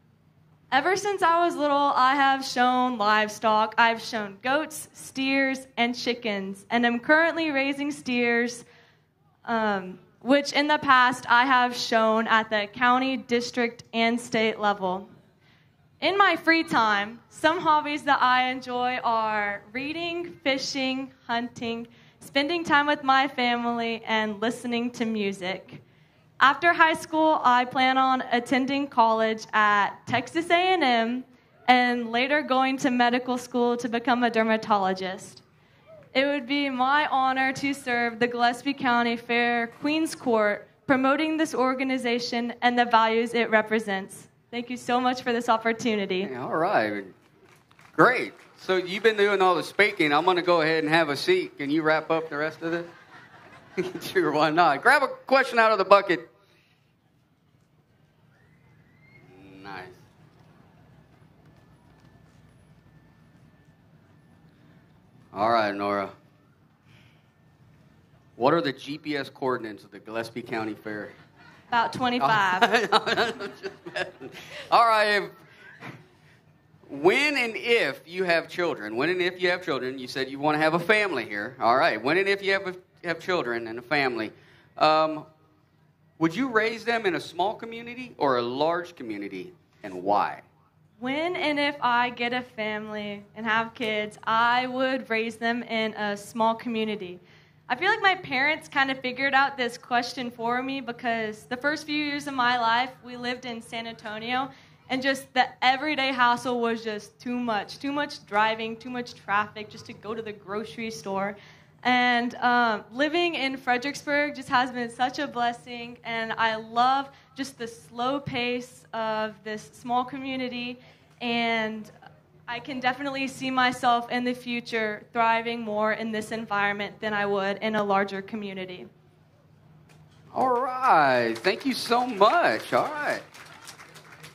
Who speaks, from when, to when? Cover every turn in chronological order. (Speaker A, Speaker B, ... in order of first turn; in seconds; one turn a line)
Speaker A: 0.7-8.6
Speaker A: 9.4-15.1
Speaker A: 16.0-25.8
Speaker A: 26.4-35.4
Speaker A: 36.1-46.3
Speaker B: 46.2-47.1
Speaker B: 47.9-52.9
Speaker B: 53.8-56.3
Speaker B: 59.2-60.0
Speaker B: 65.3-66.1
Speaker B: 68.4-71.1
Speaker A: 71.7-72.7
Speaker B: 72.2-75.3
Speaker B: 76.9-85.3
Speaker B: 86.2-90.4
Speaker A: 91.0-121.9
Speaker A: 122.5-128.9
Speaker B: 130.3-133.2